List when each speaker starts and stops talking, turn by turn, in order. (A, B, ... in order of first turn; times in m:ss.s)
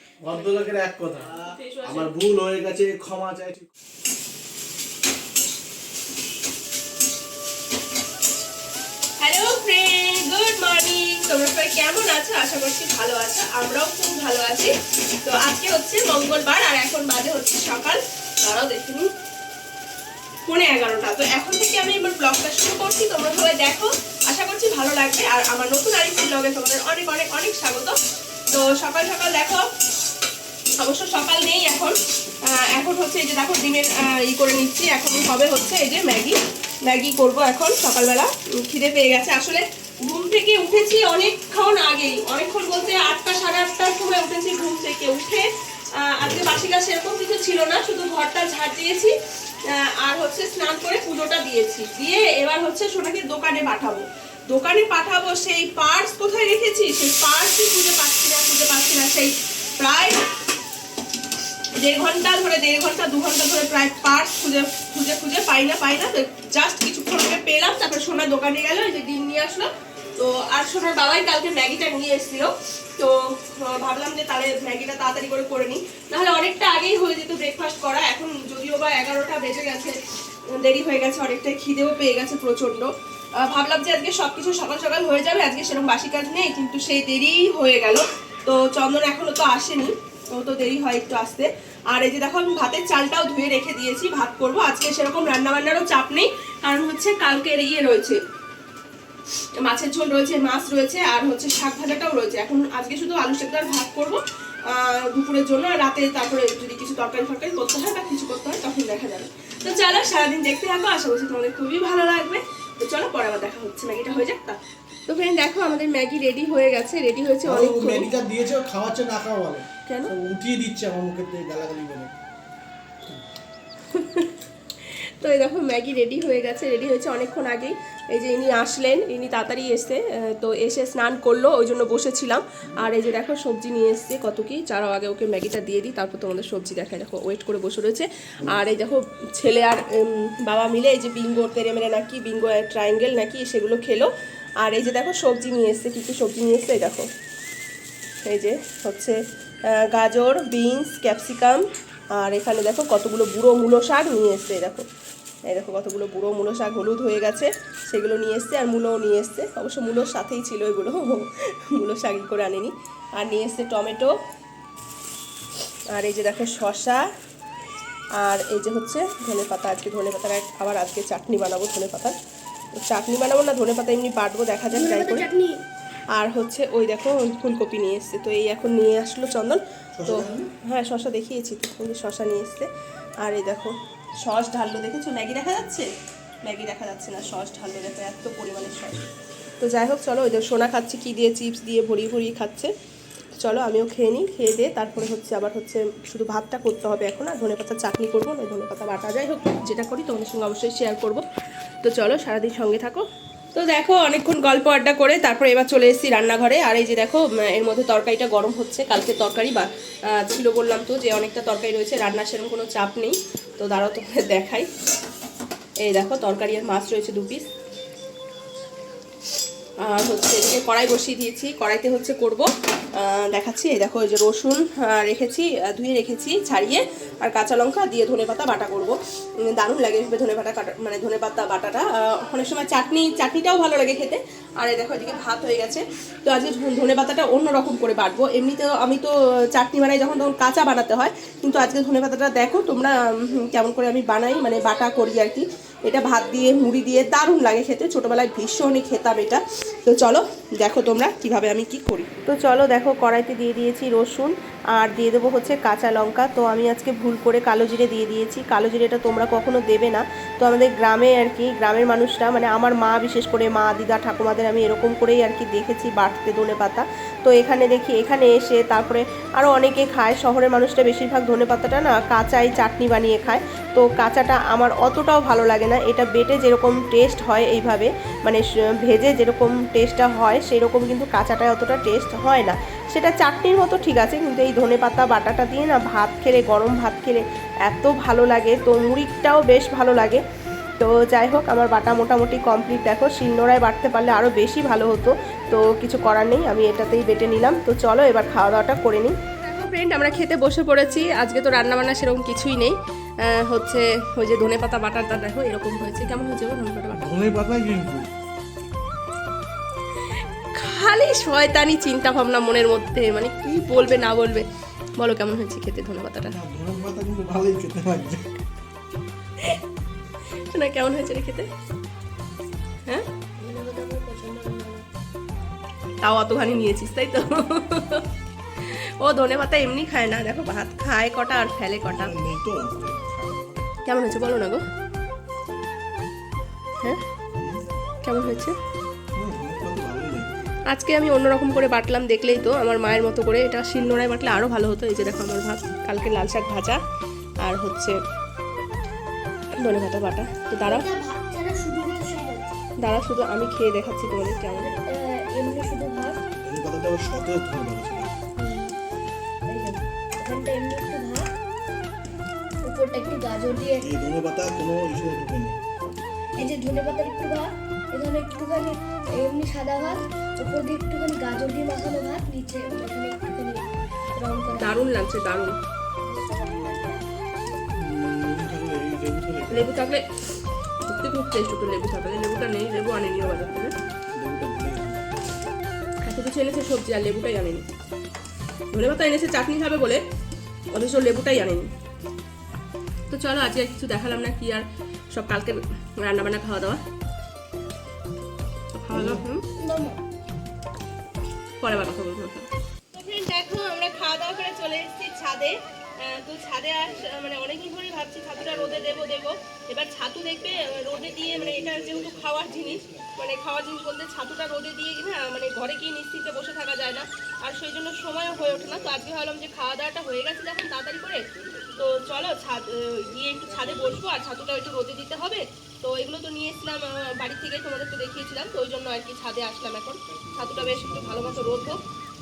0:00.2-0:03.7 A
0:01.4-0:02.1 B
0:09.2-0:19.1 B
0:20.5-0:29.7 B
0:30.8-1:00.3 B
1:01.7-1:38.2 B
1:39.6-1:58.1 B
1:57.4-2:02.1 A
1:59.9-2:00.1 B
2:03.9-2:27.1 B
2:28.2-2:34.9 B
2:35.5-2:44.2 B
2:45.9-2:47.1 B
2:48.2-2:52.2 B
2:52.8-2:55.3 B
2:54.7-2:55.6 C
2:56.2-3:02.7 B
3:00.0-3:00.5 A
3:03.2-3:05.9 B
3:06.4-3:09.1 B
3:09.6-3:12.7 B
3:13.4-3:21.2 B
3:21.8-3:34.7 B
3:35.8-3:37.5 B
3:39.8-4:50.2 B
4:50.8-5:07.2 B
5:07.0-5:08.1 A
5:10.1-5:14.5 B
5:15.0-5:16.4 B
5:16.3-5:18.3 A
5:20.3-5:21.5 B
5:23.4-5:24.9 C
5:26.0-5:32.1 B
5:31.8-5:33.7 A
5:33.8-5:34.6 B
5:37.3-5:37.7 A
5:38.0-5:38.6 B
5:39.1-5:40.5 A
5:40.7-5:46.8 B
5:47.4-5:48.0 B
5:49.6-5:50.9 B
5:50.6-5:52.6 C
5:52.8-5:54.7 B
5:54.5-5:56.2 C
5:56.4-5:58.2 A
5:58.4-5:58.8 C
5:59.5-6:01.3 C
6:02.6-6:03.9 C
6:03.8-6:05.6 A
6:06.4-6:13.6 C
6:14.2-6:15.0 C
6:14.5-6:15.6 B
6:16.0-6:17.6 C
6:17.8-6:19.7 A
6:19.5-6:20.2 B
6:20.8-6:23.8 B
6:24.1-6:25.2 A
6:26.0-6:27.7 B
6:28.7-6:30.0 B
6:30.7-6:31.7 B
6:33.1-6:36.8 B
6:38.8-6:39.5 B
6:38.9-6:39.3 A
6:39.6-6:40.0 C
6:41.6-7:01.3 B
6:48.4-6:49.1 A
6:50.4-6:53.1 A
6:58.3-6:59.0 A
7:01.3-7:04.0 A
7:01.8-7:11.8 B
7:10.1-7:11.8 A